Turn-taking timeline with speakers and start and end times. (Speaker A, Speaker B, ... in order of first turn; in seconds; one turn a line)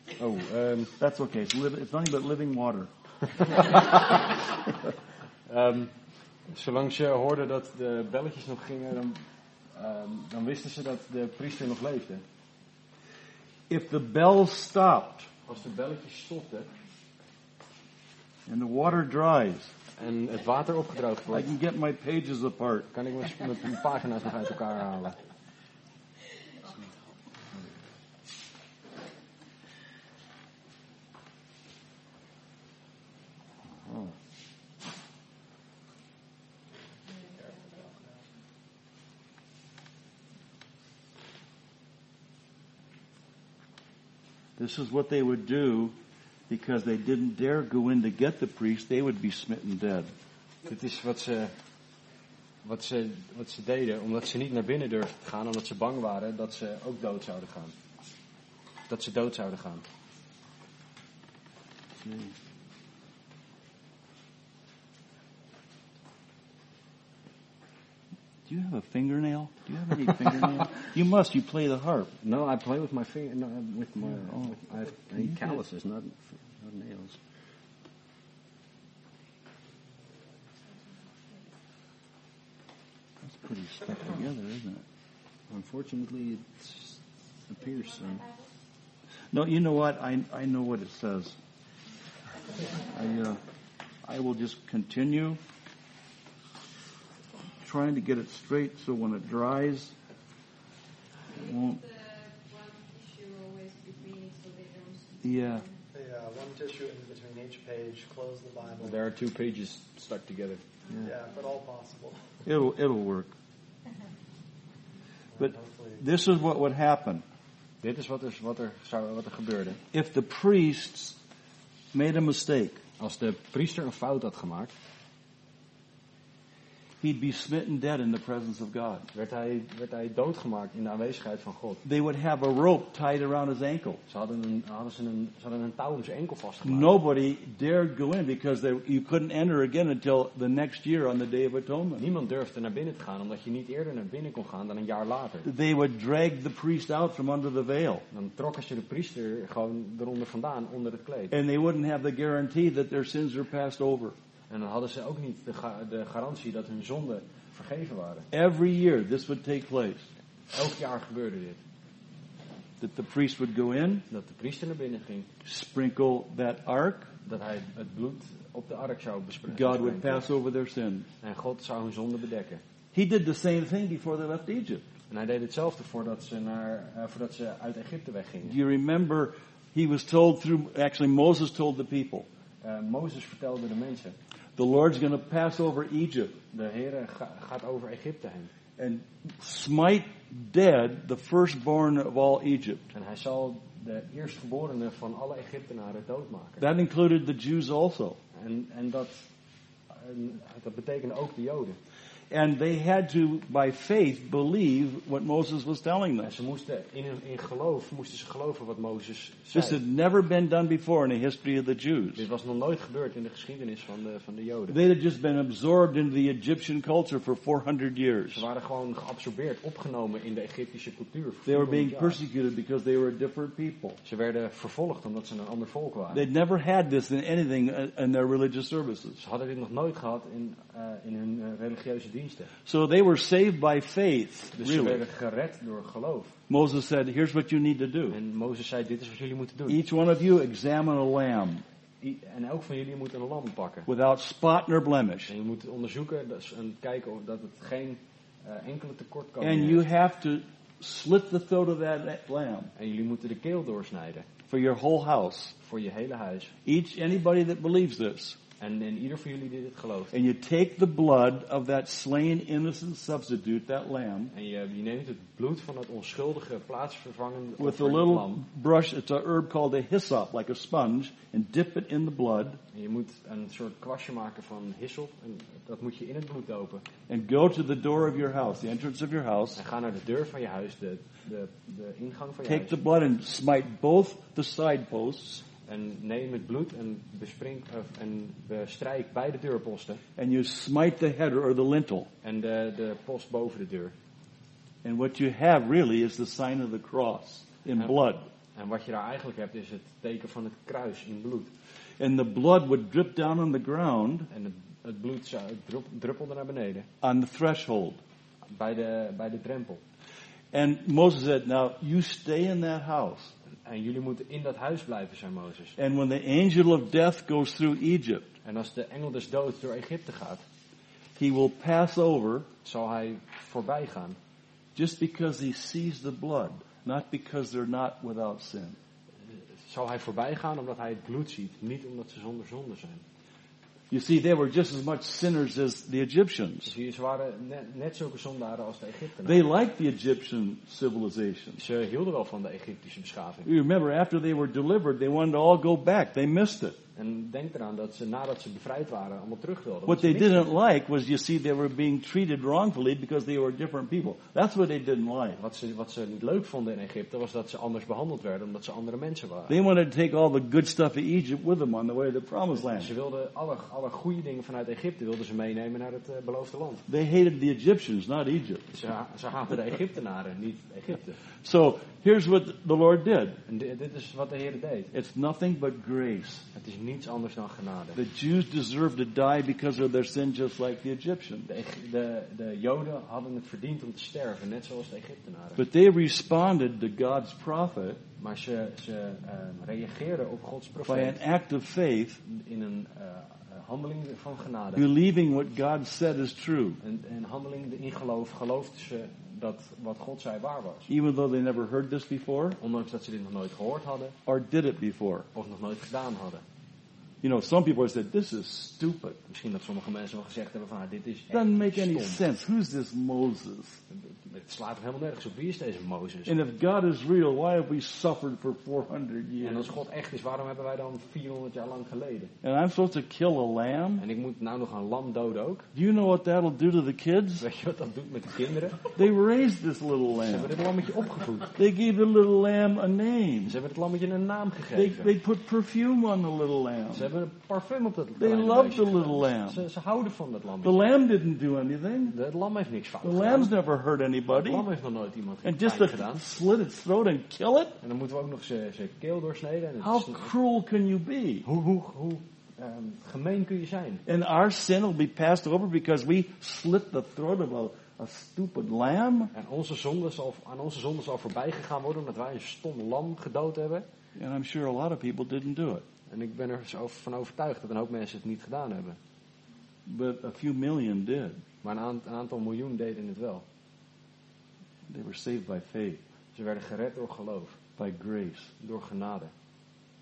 Speaker A: 0.2-0.9
Speaker B: 1.0-2.9
Speaker A: 3.6-4.2
Speaker A: 5.5-5.9
Speaker A: 6.5-9.2
Speaker A: 9.7-12.2
Speaker B: 13.7-15.3
Speaker A: 15.5-16.7
Speaker B: 18.5-19.7
Speaker A: 20.0-21.5
Speaker B: 21.3-22.9
Speaker A: 22.9-25.2
Speaker B: 44.6-46.0
Speaker B: 46.5-50.1
Speaker A: 50.6-51.5
Speaker A: 52.6-57.7
Speaker A: 58.9-59.9
Speaker A: 62.0-62.3
Speaker B: 68.5-72.1
Speaker A: 72.2-77.2
Speaker B: 74.1-74.6
Speaker B: 75.2-75.6
Speaker B: 83.2-84.8
Speaker A: 85.5-88.2
Speaker B: 89.3-91.4
Speaker B: 92.8-93.4
Speaker B: 94.0-95.4
Speaker B: 97.6-99.9
Speaker C: 101.3-105.7
Speaker B: 101.3-101.8
Speaker B: 105.2-105.7
Speaker D: 105.9-109.0
Speaker A: 108.8-111.1
Speaker D: 111.0-112.2
Speaker B: 112.5-113.3
Speaker D: 115.3-116.0
Speaker B: 115.4-117.2
Speaker A: 117.8-119.8
Speaker B: 119.9-121.2
Speaker B: 121.9-122.8
Speaker A: 123.0-124.7
Speaker B: 127.0-129.1
Speaker A: 129.1-131.8
Speaker B: 131.8-134.0
Speaker A: 134.1-136.9
Speaker B: 136.6-142.1
Speaker A: 142.0-145.5
Speaker B: 145.4-148.1
Speaker A: 148.1-151.3
Speaker B: 151.3-154.2
Speaker A: 154.5-158.3
Speaker B: 158.3-160.1
Speaker A: 160.5-161.6
Speaker B: 162.8-164.1
Speaker A: 164.1-165.3
Speaker B: 165.4-167.1
Speaker A: 167.2-170.3
Speaker B: 169.5-171.1
Speaker A: 171.2-172.6
Speaker B: 172.9-174.8
Speaker A: 175.1-178.6
Speaker B: 178.4-182.3
Speaker A: 182.6-184.2
Speaker B: 184.6-186.4
Speaker A: 186.5-188.5
Speaker B: 188.8-192.9
Speaker A: 192.9-196.7
Speaker B: 196.6-198.2
Speaker A: 198.3-199.3
Speaker A: 199.9-201.8
Speaker B: 202.3-206.3
Speaker A: 206.2-209.8
Speaker B: 209.5-212.2
Speaker A: 212.2-214.8
Speaker B: 214.7-218.5
Speaker A: 218.3-222.2
Speaker B: 221.5-224.0
Speaker A: 224.0-226.3
Speaker B: 226.1-229.2
Speaker A: 229.2-232.5
Speaker B: 232.7-235.0
Speaker A: 234.6-236.3
Speaker B: 236.5-238.2
Speaker A: 238.1-239.8
Speaker B: 239.7-241.6
Speaker A: 242.0-243.9
Speaker B: 243.9-245.3
Speaker A: 245.3-249.9
Speaker B: 249.4-252.7
Speaker A: 252.8-254.3
Speaker B: 254.5-255.6
Speaker A: 255.6-256.5
Speaker B: 256.6-258.4
Speaker A: 258.6-260.1
Speaker B: 260.1-264.3
Speaker A: 264.3-268.4
Speaker B: 267.6-272.6
Speaker A: 272.7-276.9
Speaker B: 277.1-279.6
Speaker A: 279.6-282.8
Speaker B: 282.5-285.4
Speaker A: 285.7-290.0
Speaker B: 290.2-292.1
Speaker A: 292.2-293.9
Speaker B: 294.8-298.3
Speaker A: 298.6-301.5
Speaker B: 302.0-304.3
Speaker A: 304.3-306.9
Speaker B: 307.0-308.0
Speaker A: 308.5-309.8
Speaker B: 310.5-313.3
Speaker A: 313.6-315.8
Speaker B: 315.8-318.3
Speaker A: 318.4-320.4
Speaker B: 321.2-322.5
Speaker A: 322.6-324.2
Speaker B: 324.8-328.8
Speaker A: 329.3-333.0
Speaker B: 333.9-336.7
Speaker A: 336.7-339.5
Speaker B: 339.2-341.6
Speaker A: 341.6-343.5
Speaker B: 343.5-346.8
Speaker A: 347.0-350.5
Speaker B: 349.9-355.4
Speaker A: 355.3-359.6
Speaker B: 359.5-362.9
Speaker A: 362.5-366.9
Speaker B: 366.9-368.7
Speaker A: 368.7-371.2
Speaker B: 371.4-373.4
Speaker A: 373.5-374.9
Speaker B: 374.9-376.5
Speaker A: 376.6-378.0
Speaker B: 377.9-381.5
Speaker A: 381.5-385.6
Speaker B: 385.6-388.0
Speaker A: 388.2-391.2
Speaker B: 390.8-392.2
Speaker A: 392.2-394.9
Speaker B: 394.8-396.8
Speaker A: 396.8-400.9
Speaker B: 400.9-402.6
Speaker A: 402.6-404.2
Speaker B: 404.3-405.3
Speaker A: 405.3-406.4
Speaker B: 407.2-409.2
Speaker A: 409.3-412.2
Speaker B: 411.3-413.8
Speaker A: 413.9-416.4
Speaker B: 416.3-419.7
Speaker A: 419.4-422.3
Speaker B: 422.4-424.1
Speaker A: 424.0-425.7
Speaker B: 425.7-427.4
Speaker A: 427.4-428.9
Speaker B: 428.9-430.5
Speaker A: 430.3-431.6
Speaker B: 431.6-433.6
Speaker A: 433.4-435.1
Speaker B: 434.7-437.1
Speaker A: 436.9-440.9
Speaker B: 438.2-439.6
Speaker B: 440.6-442.2
Speaker A: 442.1-443.5
Speaker B: 443.0-444.6
Speaker A: 444.3-446.2
Speaker B: 445.4-447.8
Speaker A: 447.8-450.3
Speaker B: 449.8-451.5
Speaker A: 451.4-454.0
Speaker B: 454.1-459.3
Speaker A: 459.3-463.9
Speaker B: 464.2-465.9
Speaker A: 466.1-469.0
Speaker B: 469.9-471.4
Speaker A: 471.6-473.4
Speaker B: 474.9-476.0
Speaker A: 476.3-477.6
Speaker B: 477.8-478.5
Speaker A: 478.6-479.3